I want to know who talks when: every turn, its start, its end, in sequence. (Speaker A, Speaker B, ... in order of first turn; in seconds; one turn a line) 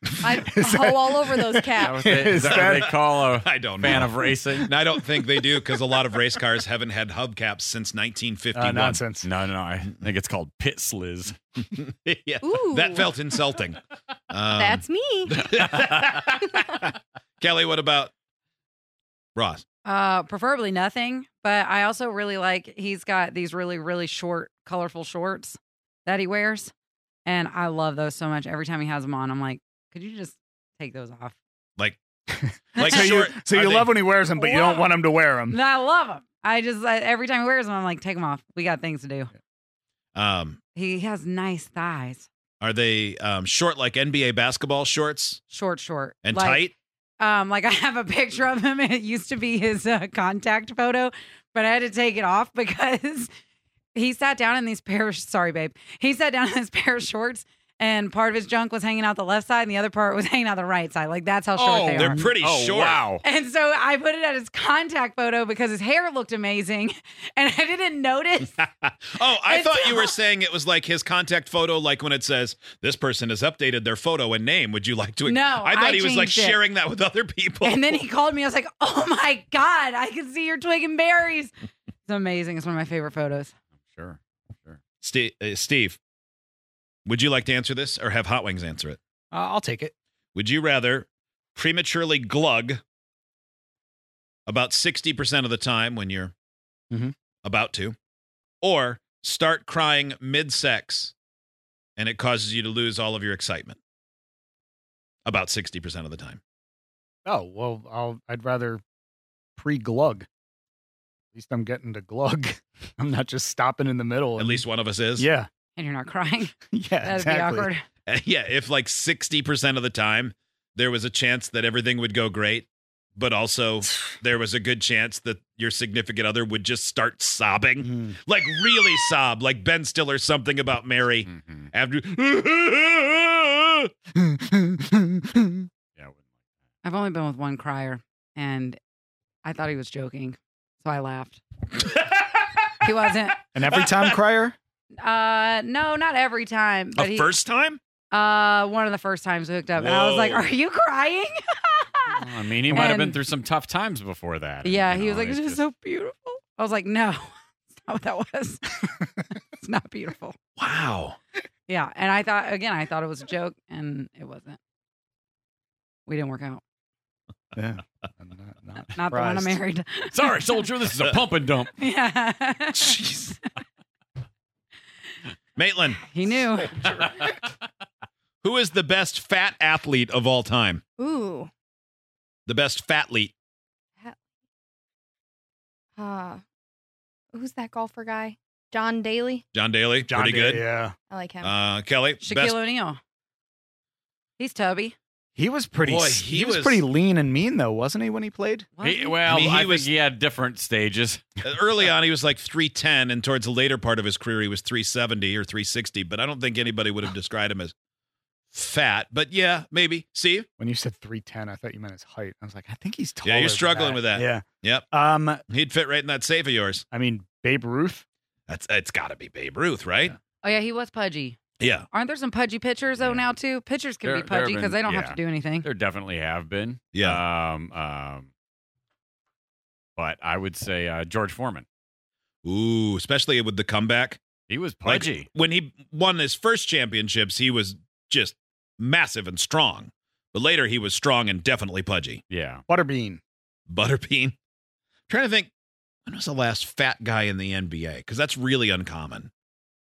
Speaker A: 0.1-2.4
Speaker B: 0.5-2.9
Speaker C: 1.8-4.7
Speaker D: 2.4-9.0
Speaker B: 8.5-9.3
Speaker C: 9.2-11.4
Speaker D: 11.7-18.1
Speaker A: 12.4-13.4
Speaker A: 14.5-16.8
Speaker D: 19.4-19.6
Speaker E: 19.8-26.7
Speaker E: 27.2-31.4
Speaker B: 32.3-35.6
Speaker D: 32.8-33.9
Speaker E: 32.8-33.1
Speaker E: 34.4-34.9
Speaker E: 35.5-39.3
Speaker D: 40.1-40.6
Speaker E: 40.7-42.3
Speaker D: 42.6-45.4
Speaker E: 45.5-53.3
Speaker D: 46.2-46.7
Speaker E: 53.9-62.2
Speaker C: 61.5-63.2
Speaker D: 61.9-63.0
Speaker E: 63.2-68.6
Speaker D: 68.6-78.0
Speaker E: 69.3-70.1
Speaker E: 75.2-76.6
Speaker E: 77.6-81.5
Speaker E: 82.1-83.5
Speaker C: 83.8-84.8
Speaker D: 85.0-86.0
Speaker D: 87.0-89.0
Speaker B: 89.3-89.9
Speaker D: 90.3-92.8
Speaker D: 94.5-96.3
Speaker D: 97.4-98.0
Speaker D: 98.6-101.1
Speaker D: 102.0-103.8
Speaker D: 105.2-106.4
Speaker B: 107.2-108.8
Speaker B: 109.6-110.3
Speaker B: 111.3-114.6
Speaker D: 114.4-115.3
Speaker B: 115.2-115.5
Speaker E: 115.8-117.8
Speaker B: 116.7-117.7
Speaker D: 118.1-133.9
Speaker B: 127.8-128.2
Speaker C: 131.2-131.7
Speaker B: 134.1-135.7
Speaker E: 136.8-138.8
Speaker E: 139.4-141.4
Speaker D: 141.8-142.6
Speaker E: 142.8-143.5
Speaker B: 143.5-144.6
Speaker D: 143.7-144.1
Speaker E: 145.0-147.3
Speaker D: 146.9-147.8
Speaker E: 148.1-153.2
Speaker D: 149.8-150.5
Speaker C: 152.2-155.6
Speaker E: 154.6-160.4
Speaker D: 160.6-161.2
Speaker E: 161.7-164.6
Speaker E: 166.1-166.6
Speaker B: 167.5-169.6
Speaker E: 169.0-170.6
Speaker C: 170.1-171.7
Speaker E: 171.8-173.5
Speaker D: 172.7-173.4
Speaker D: 175.6-176.1
Speaker E: 176.0-177.0
Speaker C: 177.0-177.3
Speaker D: 178.4-180.8
Speaker A: 181.0-181.5
Speaker D: 182.4-183.3
Speaker A: 186.0-186.4
Speaker A: 187.3-189.4
Speaker D: 189.5-190.6
Speaker B: 190.1-191.0
Speaker A: 191.1-191.5
Speaker D: 191.4-192.6
Speaker E: 192.2-193.0
Speaker E: 194.4-194.9
Speaker B: 195.3-198.7
Speaker D: 195.8-196.8
Speaker E: 198.8-199.3
Speaker C: 198.8-201.2
Speaker D: 199.2-199.9
Speaker D: 201.4-207.7
Speaker D: 208.5-210.5
Speaker B: 210.6-215.4
Speaker D: 213.2-214.9
Speaker D: 215.5-216.8
Speaker B: 216.9-218.0
Speaker D: 218.5-220.2
Speaker E: 220.4-221.4
Speaker D: 221.6-221.9
Speaker E: 221.9-225.7
Speaker C: 223.0-223.3
Speaker C: 224.0-228.3
Speaker D: 226.9-227.2
Speaker C: 230.0-231.7
Speaker D: 232.4-234.2
Speaker C: 234.5-235.3
Speaker D: 234.8-242.2
Speaker C: 242.3-242.6
Speaker B: 242.7-243.2
Speaker D: 243.7-244.3
Speaker D: 245.1-245.5
Speaker D: 246.1-249.3